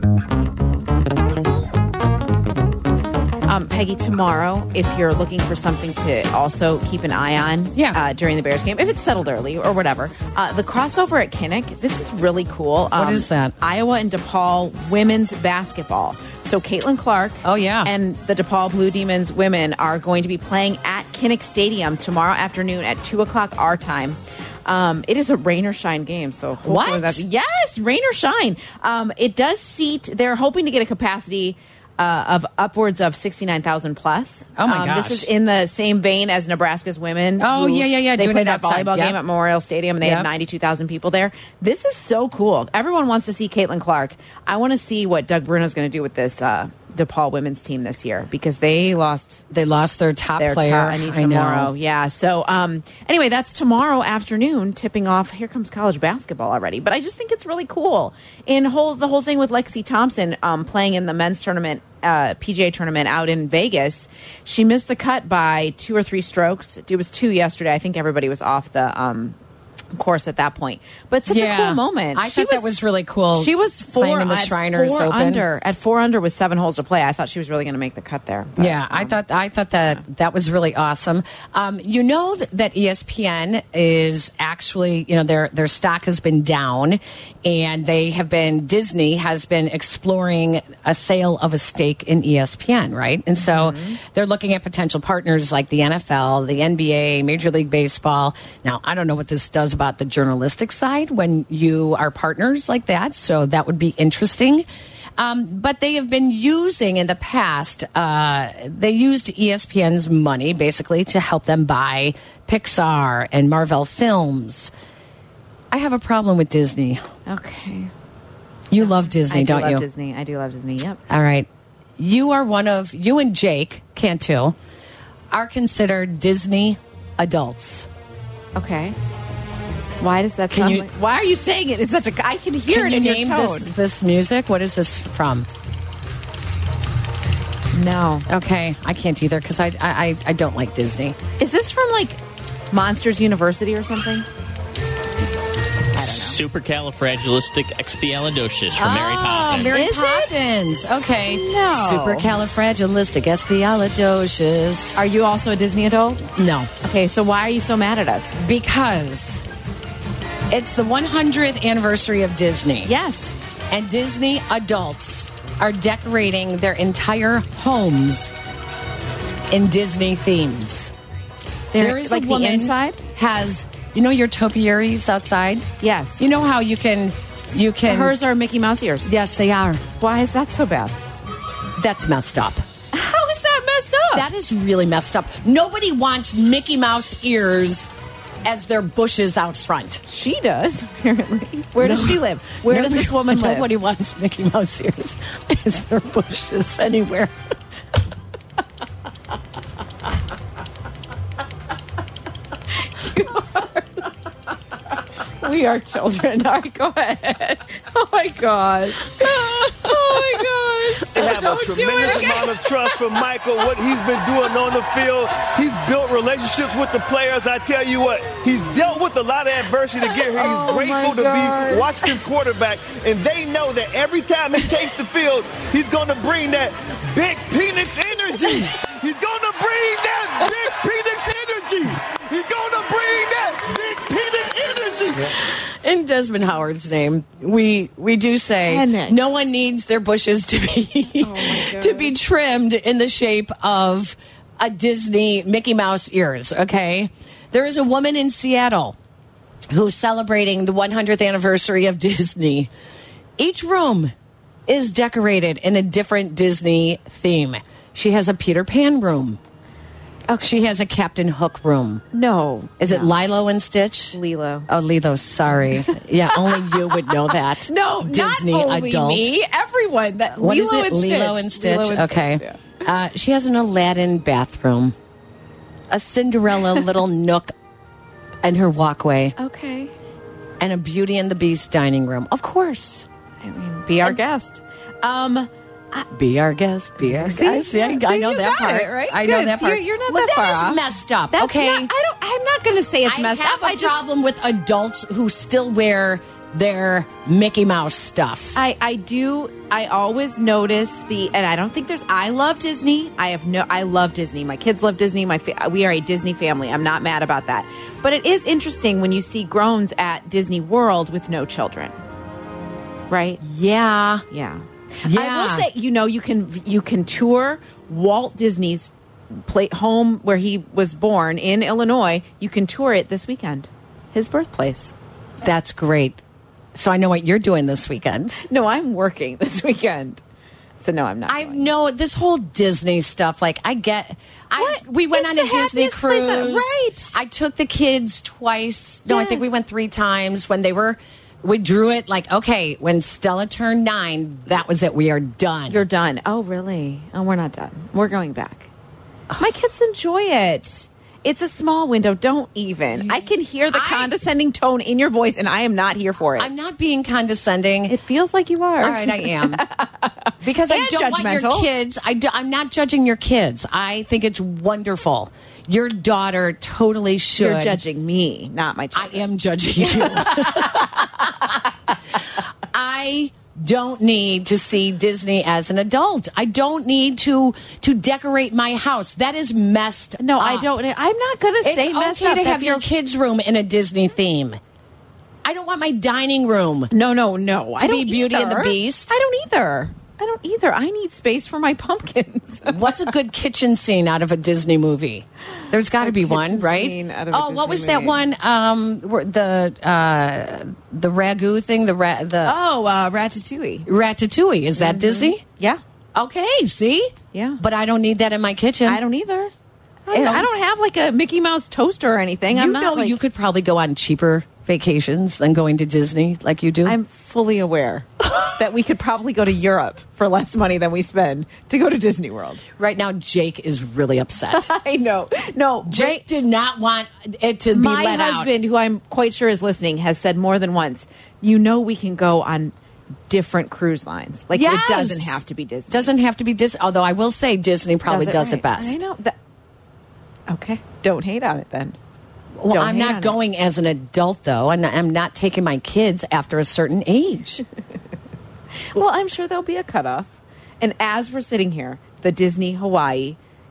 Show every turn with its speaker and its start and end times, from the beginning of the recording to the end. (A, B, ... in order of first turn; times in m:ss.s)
0:03.4-0:49.4 A
0:07.7-0:08.0 B
0:13.0-0:13.5 B
0:17.4-0:17.9 B
0:26.6-0:27.2 B
0:34.6-0:35.3 B
0:37.4-0:39.2 B
0:40.0-0:40.3 B
0:49.5-0:51.7 B
0:50.4-1:09.4 A
1:09.9-1:12.7 A
1:11.3-1:15.4 B
1:13.3-1:19.2 A
1:18.6-1:44.6 B
1:33.4-1:34.0 A
1:45.2-1:54.7 B
1:55.7-1:57.0 B
1:57.2-1:57.9 A
1:58.7-1:59.8 B
1:58.7-2:01.0 A
2:01.1-2:04.5 B
2:05.3-2:07.9 B
2:08.5-2:09.0 A
2:10.0-2:13.7 A
2:10.5-2:10.9 B
2:12.7-2:15.5 B
2:17.7-2:18.3 A
2:18.3-2:21.2 B
2:21.4-2:24.3 A
2:25.9-2:26.4 A
2:26.0-2:29.9 C
2:28.8-2:35.0 B
2:29.5-2:30.5 A
2:31.3-2:32.4 A
2:35.0-2:36.3 A
2:36.3-2:36.7 B
2:36.8-2:38.4 A
2:38.4-2:39.4 B
2:40.5-2:42.9 B
2:42.8-2:43.4 A
2:43.7-2:48.3 B
2:49.5-2:50.9 B
2:51.7-2:53.0 A
2:51.8-2:55.7 B
2:55.8-2:56.3 A
2:56.2-2:58.2 B
2:57.8-2:59.1 A
2:59.0-2:59.8 B
3:00.0-3:01.0 A
3:01.8-3:02.6 B
3:02.9-3:04.3 A
3:04.1-3:07.9 B
3:08.4-3:10.0 B
3:10.1-3:13.7 A
3:11.8-3:17.3 B
3:22.9-3:24.1 A
3:25.4-3:33.4 A
3:31.1-3:55.3 D
3:40.0-3:42.2 A
3:55.8-4:09.0 B
3:58.6-3:59.2 A
4:01.2-4:02.2 A
4:09.7-4:12.7 B
4:13.4-4:14.1 B
4:14.7-4:19.4 B
4:20.4-4:22.0 B
4:22.1-4:23.1 A
4:22.8-4:29.3 B
4:24.1-4:24.7 A
4:25.5-4:32.6 A
4:30.4-4:34.9 B
4:35.9-4:37.5 B
4:38.4-4:39.4 B
4:39.4-4:39.9 A
4:40.6-4:43.0 B
4:43.4-4:46.1 A
4:46.1-4:51.9 B
4:47.0-4:54.0 A
4:53.0-4:58.6 B
4:58.5-5:11.9 A
5:13.1-5:13.4 A
5:13.4-5:14.2 B
5:14.3-5:24.9 A
5:15.0-5:15.7 B
5:25.4-5:26.2 B
5:26.7-5:28.4 B
5:28.4-5:30.2 A
5:30.8-5:31.7 A
5:31.3-5:45.8 B
5:34.6-5:37.2 A
5:39.1-5:39.5 A
5:45.7-5:48.7 A
5:49.3-5:56.5 A
5:52.9-5:54.1 B
5:56.4-5:57.9 B
5:57.9-6:01.7 A
5:58.8-5:59.6 B
6:00.4-6:07.8 B
6:07.4-6:11.1 A
6:08.9-6:11.4 B
6:12.7-6:20.7 B
6:20.2-6:22.9 A
6:21.6-6:24.6 B
6:25.4-6:26.9 B
6:26.9-6:33.1 A
6:27.8-6:29.1 B
6:32.7-6:42.6 B
6:36.0-6:38.2 A
6:42.4-6:43.9 A
6:43.8-6:45.4 B
6:44.8-6:45.8 A
6:46.2-6:49.0 B
6:47.3-6:47.6 A
6:48.8-6:49.5 A
6:50.0-6:53.2 A
6:50.1-6:50.5 B
6:52.5-6:57.0 B
6:56.8-7:02.6 A
7:02.8-7:04.7 B
7:04.5-7:06.2 A
7:05.8-7:08.5 B
7:07.7-7:12.7 A
7:13.3-7:16.1 A
7:14.5-7:19.0 B
7:18.1-7:19.4 A
7:20.5-7:22.0 A
7:22.6-7:27.6 B
7:22.7-7:23.4 A
7:28.9-7:33.4 A